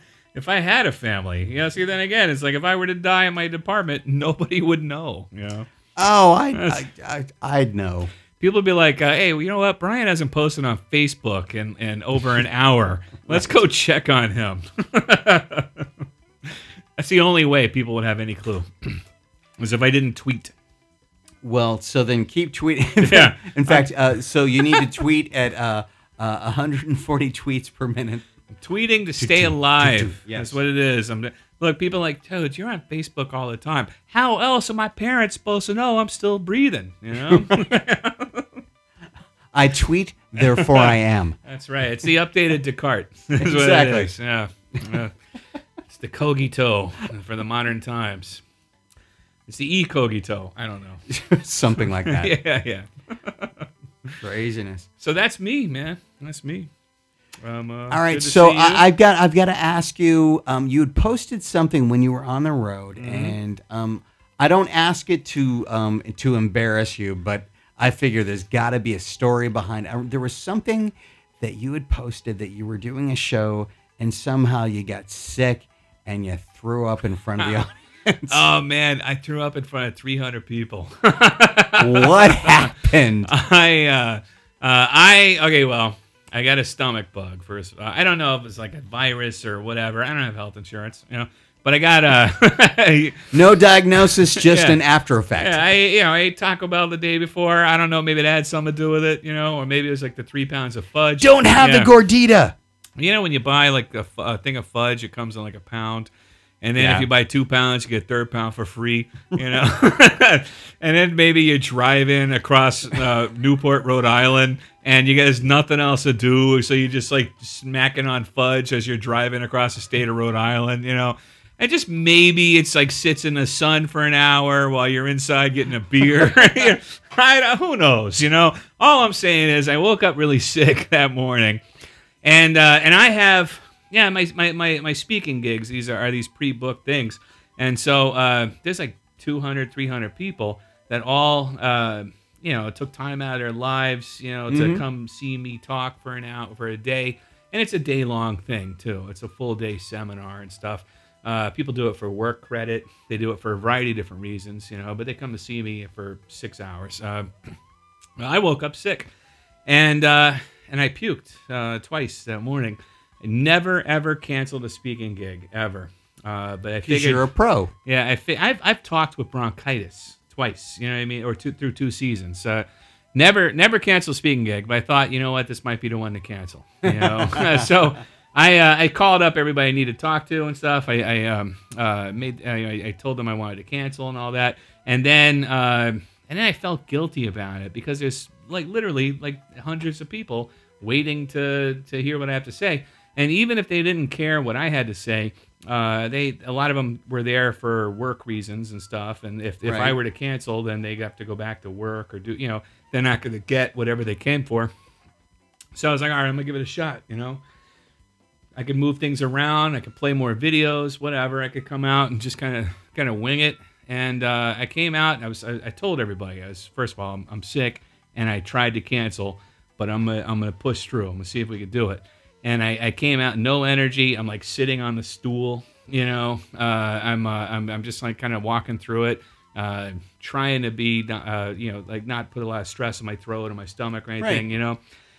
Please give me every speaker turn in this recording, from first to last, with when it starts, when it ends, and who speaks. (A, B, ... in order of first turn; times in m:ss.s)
0:00.3-0:05.7 A
0:06.0-0:08.1 B
0:06.5-0:06.8 A
0:08.4-0:15.9 A
0:16.5-0:19.0 A
0:19.6-0:20.5 A
0:21.4-0:28.3 B
0:23.0-0:23.9 A
0:28.6-0:38.6 A
0:29.2-0:30.6 B
0:37.3-0:37.6 B
0:39.5-0:41.4 B
0:40.4-0:45.2 A
0:43.4-0:44.1 B
0:45.9-0:48.4 A
0:49.5-0:51.0 A
0:51.1-0:52.4 B
0:52.0-0:54.2 A
0:54.2-0:54.9 B
0:55.0-0:56.7 A
0:57.4-0:58.9 A
0:57.9-1:18.4 B
1:03.0-1:03.4 A
1:18.3-1:33.3 A
1:21.8-1:23.3 B
1:33.3-1:35.6 B
1:34.4-1:34.8 A
1:35.4-1:41.9 A
1:41.2-1:42.6 B
1:43.0-2:11.6 A
1:46.8-1:47.1 B
2:12.2-2:37.5 A
2:24.5-2:24.8 B
2:38.2-2:39.1 A
2:39.7-2:47.2 A
2:46.8-2:47.7 B
2:47.8-3:24.7 A
2:56.8-2:57.6 B
3:19.6-3:20.0 B
3:25.7-3:27.4 A
3:28.6-3:54.8 A
3:54.2-3:54.4 B